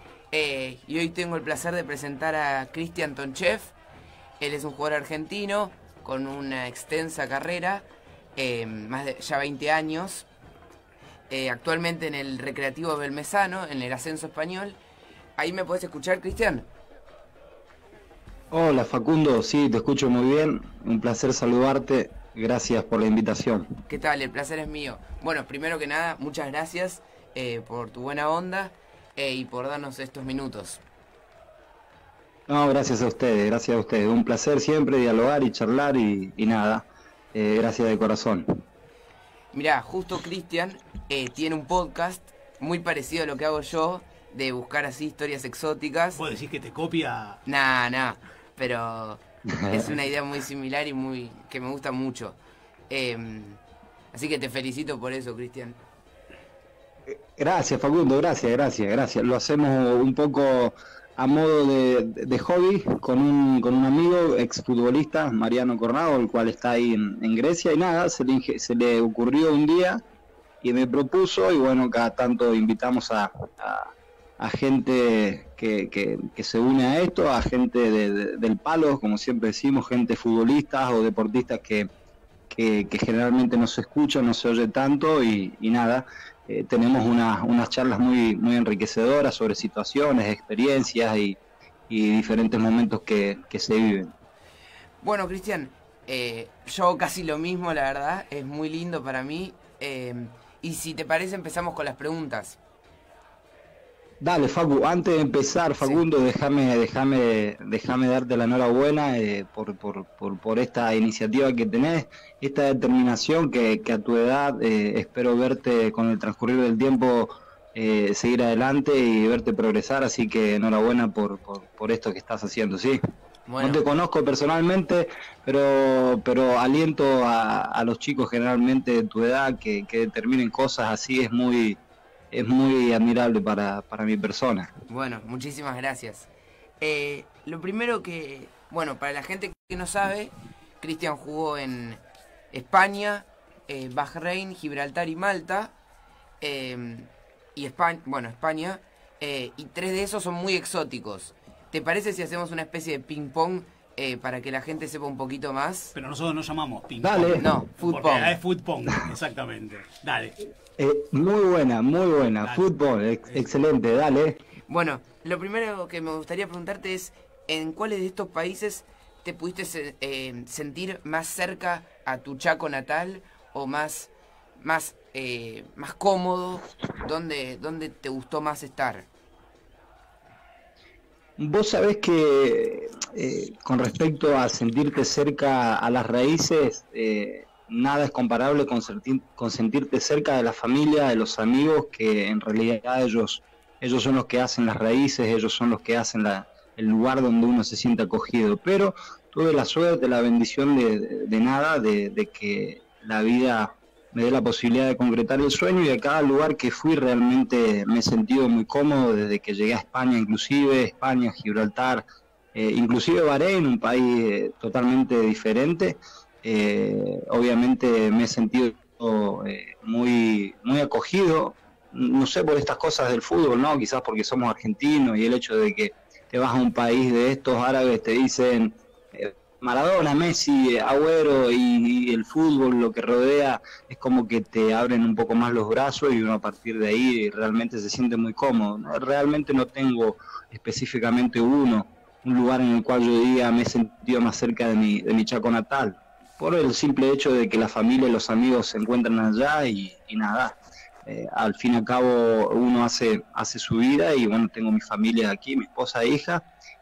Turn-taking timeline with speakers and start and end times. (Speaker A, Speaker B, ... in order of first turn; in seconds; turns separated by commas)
Speaker A: 0.3-3.8, Speaker A: 4.4-10.3, Speaker A: 11.3-14.8, Speaker A: 15.4-16.7, Speaker B: 18.5-23.7, Speaker A: 23.9-30.8, Speaker B: 32.5-38.5, Speaker A: 39.5-46.2, Speaker C: 46.1-47.4, Speaker A: 47.5-52.4, Speaker B: 49.6-49.9, Speaker A: 52.9-53.6, Speaker A: 54.1-55.8, Speaker B: 57.1-70.0, Speaker B: 70.6-81.9, Speaker B: 82.5-94.1, Speaker A: 95.0-102.6, Speaker B: 104.2-123.0, Speaker A: 123.5-123.8, Speaker B: 123.6-131.8, Speaker B: 132.3-134.7, Speaker A: 134.9-136.3, Speaker A: 136.8-142.0, Speaker A: 142.5-145.7, Speaker A: 146.4-155.9, Speaker C: 155.9-160.4, Speaker B: 157.0-157.4, Speaker A: 157.4-158.4, Speaker B: 160.8-164.4, Speaker A: 164.7-179.1, Speaker B: 181.4-212.0, Speaker B: 212.5-256.4